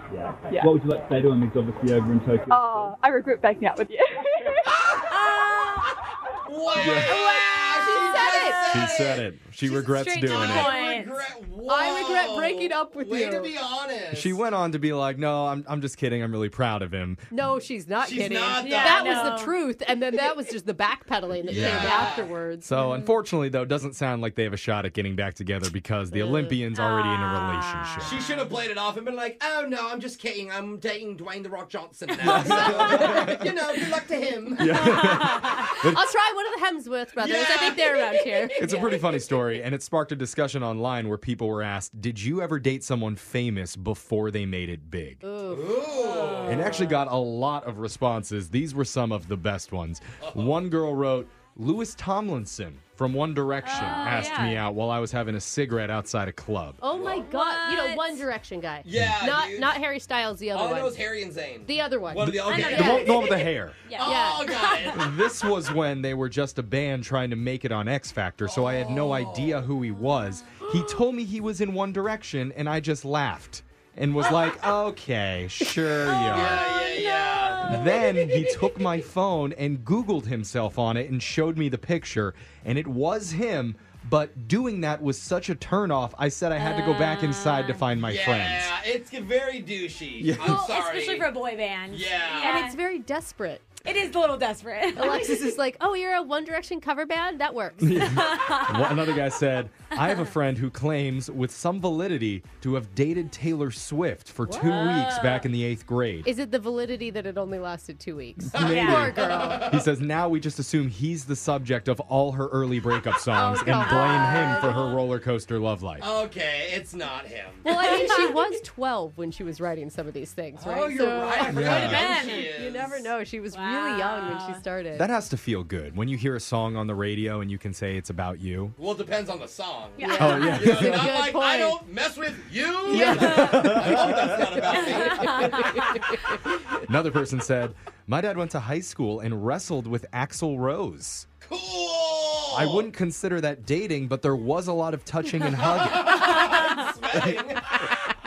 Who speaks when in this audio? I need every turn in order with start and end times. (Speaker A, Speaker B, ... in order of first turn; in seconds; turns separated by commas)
Speaker A: 0.2-2.9, Speaker B: 0.5-0.7, Speaker B: 2.5-4.7, Speaker C: 4.8-5.1, Speaker D: 5.1-6.0, Speaker C: 6.5-9.2, Speaker E: 6.8-7.2, Speaker F: 7.0-8.9, Speaker D: 8.1-11.1, Speaker E: 8.7-10.7, Speaker C: 10.2-14.4, Speaker F: 11.7-13.5, Speaker E: 14.1-17.3, Speaker F: 17.3-22.7, Speaker C: 18.0-19.3, Speaker D: 18.6-19.6, Speaker C: 21.4-22.3, Speaker E: 21.5-28.2, Speaker D: 22.8-23.2, Speaker F: 26.1-26.6, Speaker D: 26.7-28.2, Speaker C: 28.0-34.8, Speaker E: 32.2-33.5, Speaker D: 32.3-32.6, Speaker E: 34.6-36.0, Speaker D: 35.1-35.5, Speaker F: 35.8-38.7, Speaker C: 37.2-38.8, Speaker E: 38.6-45.2, Speaker F: 45.2-45.8, Speaker C: 45.5-46.8, Speaker D: 45.9-47.0, Speaker E: 46.5-56.8, Speaker C: 50.2-50.5, Speaker D: 53.6-54.6, Speaker F: 56.8-61.0, Speaker C: 56.9-57.3, Speaker D: 57.2-58.2, Speaker C: 58.8-59.8, Speaker C: 60.5-65.2, Speaker F: 61.6-63.0, Speaker E: 62.2-63.8, Speaker D: 62.4-63.3, Speaker D: 63.9-64.9, Speaker F: 64.0-64.5, Speaker E: 64.8-76.6, Speaker C: 68.4-69.7, Speaker C: 76.1-78.0, Speaker D: 76.3-77.9, Speaker E: 77.7-88.7, Speaker D: 86.6-87.9, Speaker C: 88.0-91.3, Speaker E: 90.2-90.6, Speaker D: 90.4-92.8, Speaker C: 91.9-92.7, Speaker F: 92.3-93.7, Speaker D: 93.8-95.4, Speaker F: 95.0-98.2, Speaker E: 97.8-106.3, Speaker D: 98.0-99.0, Speaker D: 100.0-100.2, Speaker D: 104.5-105.5, Speaker F: 106.2-109.7, Speaker E: 108.5-116.1, Speaker C: 108.6-109.8, Speaker D: 108.6-109.1, Speaker F: 113.3-115.0, Speaker D: 113.8-114.8, Speaker C: 116.0-117.7, Speaker F: 117.6-125.1, Speaker C: 120.6-123.1, Speaker E: 121.5-122.1, Speaker D: 121.6-122.5, Speaker D: 123.5-124.6, Speaker E: 125.0-128.8, Speaker C: 128.8-136.0, Speaker D: 130.0-130.7, Speaker F: 130.0-131.8, Speaker E: 130.2-131.1, Speaker F: 132.8-134.0, Speaker E: 132.9-134.4, Speaker F: 134.6-135.8, Speaker E: 136.8-141.3, Speaker C: 141.4-142.9, Speaker E: 142.5-146.4, Speaker C: 145.6-147.9